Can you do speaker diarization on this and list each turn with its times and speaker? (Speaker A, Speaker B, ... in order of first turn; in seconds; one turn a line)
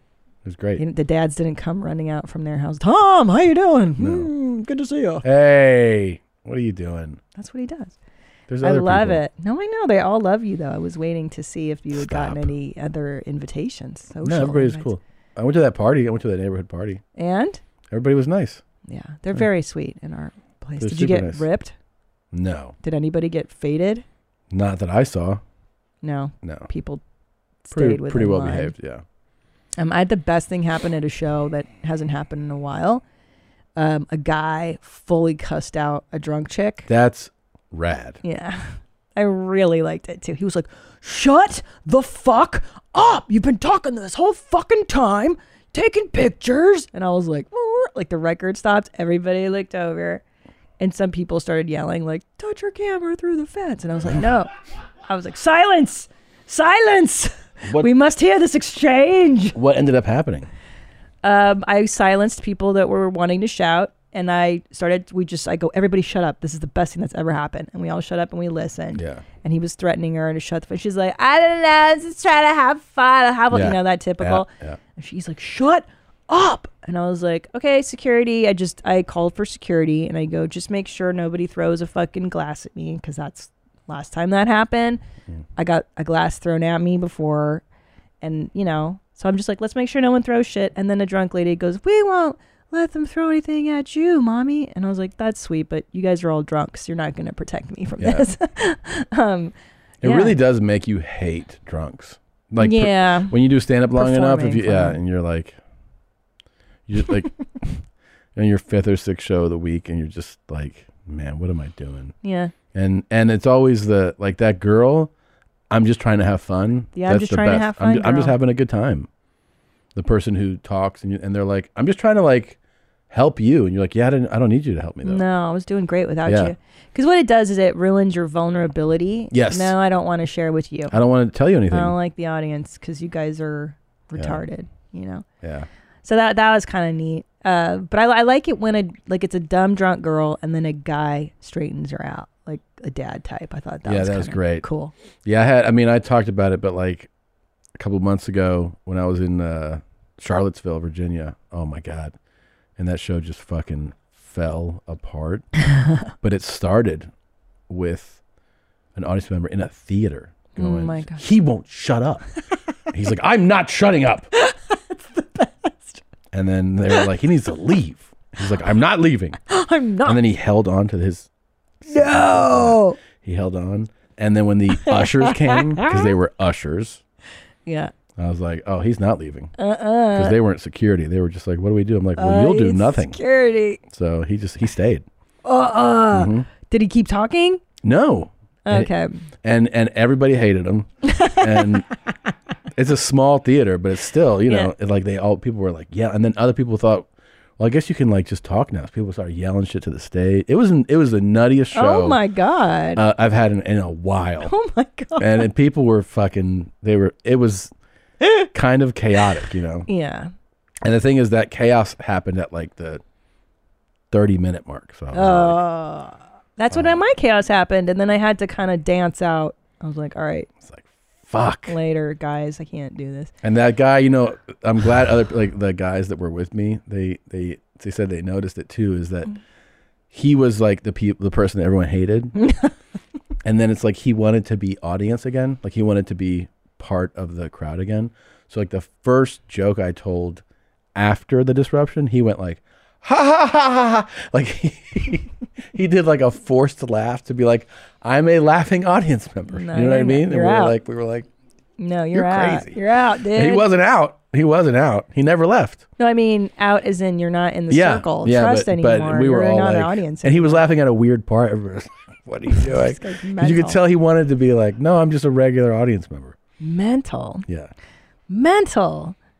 Speaker A: 0.4-0.8
Speaker B: 0.8-5.2
Speaker A: 4.0-4.3
Speaker A: 5.2-7.2
Speaker B: 7.3-8.0
Speaker A: 8.5-9.2
Speaker B: 8.6-14.9
Speaker A: 11.9-12.5
Speaker A: 14.2-17.0
Speaker B: 17.1-17.6
Speaker A: 17.9-18.6
Speaker B: 18.9-21.7
Speaker A: 20.8-21.4
Speaker A: 22.3-22.7
Speaker B: 22.8-24.0
Speaker A: 24.5-25.4
Speaker B: 26.0-27.0
Speaker A: 26.4-26.7
Speaker B: 27.6-28.7
Speaker A: 27.7-29.0
Speaker B: 29.8-33.0
Speaker B: 33.8-36.9
Speaker A: 36.9-38.2
Speaker B: 38.2-50.2
Speaker B: 50.8-54.5
Speaker B: 55.0-59.6
Speaker A: 57.6-57.9
Speaker A: 59.5-60.5
Speaker B: 61.2-85.0
Speaker A: 68.9-69.2
Speaker A: 73.5-74.8
Speaker B: 85.5-87.6
Speaker B: 88.2-100.4
Speaker A: 98.0-98.3
Speaker A: 100.0-105.6
Speaker B: 102.6-103.3
Speaker B: 103.9-105.0
Speaker A: 106.9-107.8
Speaker A: 108.3-112.1
Speaker B: 112.2-112.5
Speaker A: 112.7-115.1
Speaker A: 115.7-119.1
Speaker B: 116.9-118.4
Speaker A: 119.9-122.6
Speaker A: 123.1-125.2
Speaker B: 125.0-131.0
Speaker A: 126.2-126.5
Speaker A: 129.3-129.7
Speaker A: 130.9-131.9
Speaker B: 131.7-135.2
Speaker A: 134.2-134.4
Speaker A: 135.4-135.7
Speaker B: 136.0-144.9
Speaker A: 143.8-144.6
Speaker A: 145.2-147.1
Speaker A: 147.8-152.1
Speaker A: 152.8-155.5
Speaker B: 155.7-156.0
Speaker A: 156.2-157.1
Speaker A: 157.7-158.2
Speaker A: 158.9-162.2
Speaker B: 160.6-161.2
Speaker A: 162.9-164.3
Speaker B: 164.3-166.0
Speaker A: 166.3-169.4
Speaker B: 169.5-170.2
Speaker A: 170.0-171.3
Speaker A: 171.8-177.0
Speaker B: 171.9-173.0
Speaker B: 174.8-176.1
Speaker B: 177.7-177.9
Speaker A: 178.2-179.5
Speaker B: 179.6-180.4
Speaker A: 180.1-183.2
Speaker B: 182.2-183.8
Speaker A: 183.9-185.1
Speaker B: 185.4-187.6
Speaker A: 186.1-186.5
Speaker A: 187.8-188.9
Speaker B: 188.7-189.2
Speaker A: 189.4-191.8
Speaker B: 191.0-191.7
Speaker A: 192.7-202.2
Speaker B: 194.5-194.7
Speaker B: 201.7-203.0
Speaker A: 202.9-204.5
Speaker B: 204.4-205.5
Speaker A: 205.2-207.7
Speaker A: 208.5-209.9
Speaker B: 209.9-210.3
Speaker A: 210.8-213.0
Speaker A: 214.1-215.6
Speaker B: 215.1-220.5
Speaker A: 216.7-217.0
Speaker A: 220.6-221.8
Speaker B: 221.7-223.3
Speaker A: 223.4-229.3
Speaker A: 230.1-232.3
Speaker B: 232.4-232.7
Speaker A: 233.4-240.4
Speaker A: 240.9-251.3
Speaker B: 249.5-250.8
Speaker B: 251.8-253.7
Speaker A: 252.1-252.8
Speaker A: 253.3-255.8
Speaker B: 256.0-260.6
Speaker A: 257.7-266.4
Speaker B: 262.6-263.8
Speaker B: 266.6-267.4
Speaker A: 267.4-267.7
Speaker B: 268.3-269.1